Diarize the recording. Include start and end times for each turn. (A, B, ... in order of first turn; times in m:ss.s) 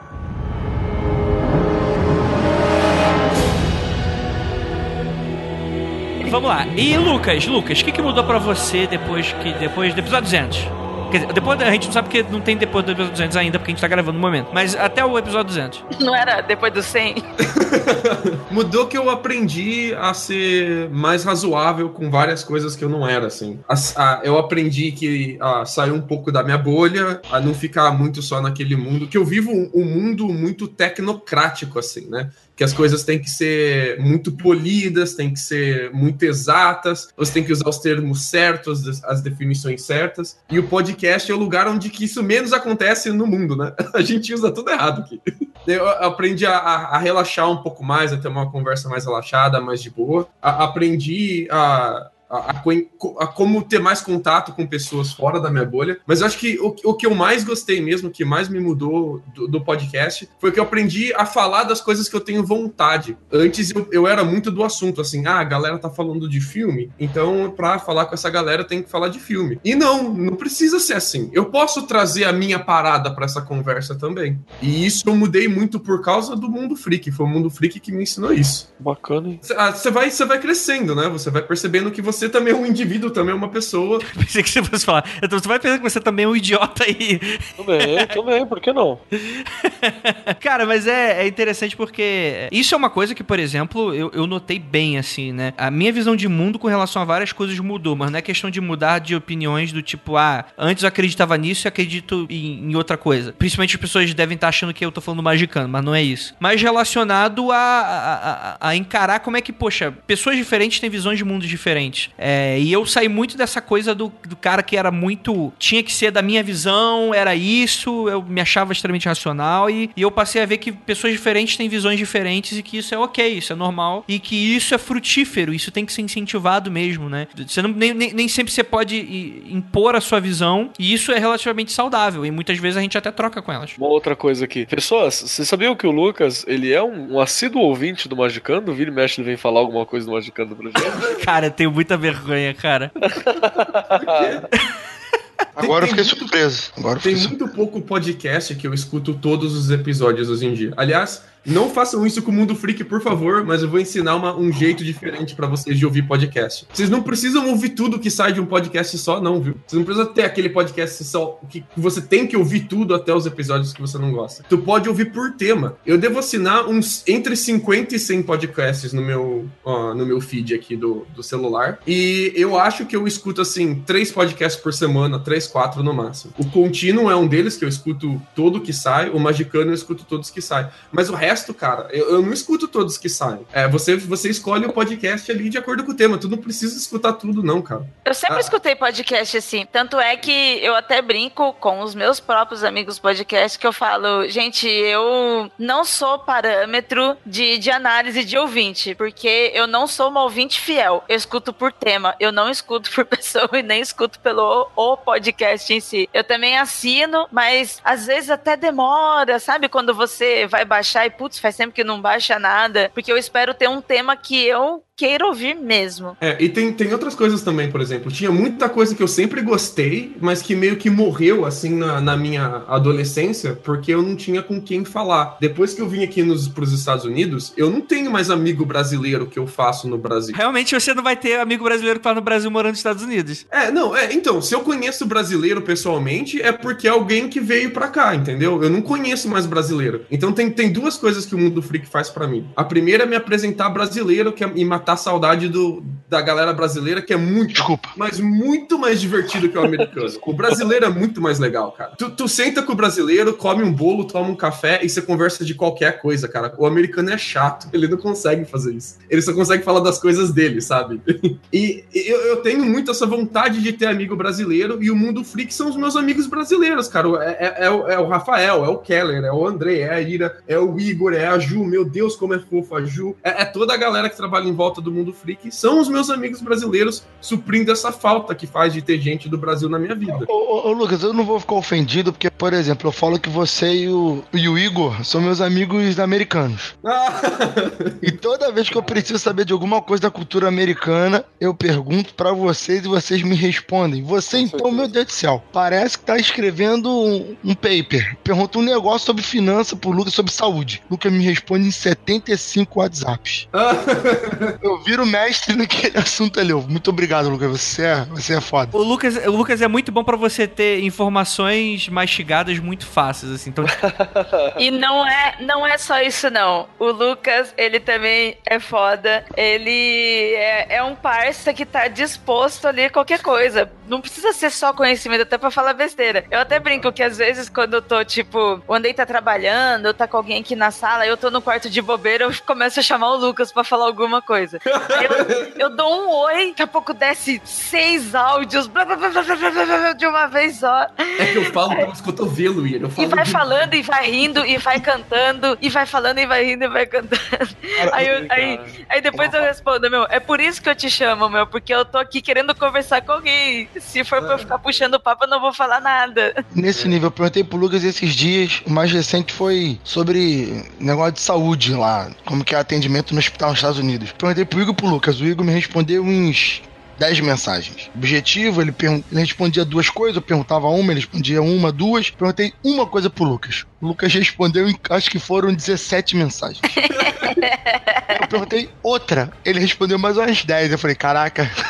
0:06.2-0:15.8 A
0:15.9-0:17.2 B
0:17.5-1:18.7 C
1:18.8-1:19.4 D
1:19.4-1:24.1 C
1:24.0-1:28.1 A
1:27.6-1:29.0 D
1:29.3-2:13.8 A
2:13.8-2:21.1 D
2:20.8-2:21.2 C
2:21.1-2:22.9 A
2:23.0-2:24.4 D
2:23.9-2:24.5 C
2:25.6-2:26.3 C
2:25.6-2:27.4 E
2:27.0-3:08.5 C
3:08.0-3:36.2 B
3:36.2-3:50.4 C
3:50.3-3:53.4 A
3:53.5-4:40.3 C
4:07.5-4:07.9 E
4:09.7-4:10.6 D
4:40.1-4:46.7 E
4:46.8-4:48.1 C
4:48.0-5:03.4 E
4:48.7-4:49.1 D
4:54.3-4:54.9 D
5:03.5-5:04.5 C
5:04.6-5:08.7 E
5:08.7-5:13.7 A
5:13.7-5:14.5 D
5:14.6-5:41.8 B
5:34.6-5:35.5 C
5:41.2-5:43.7 C
5:43.0-5:56.3 B
5:47.8-5:48.1 E
5:47.9-5:49.4 D
5:54.2-5:54.5 C
5:56.5-6:16.8 E
6:16.7-6:18.2 B
6:16.9-6:17.3 C
6:18.1-6:21.5 E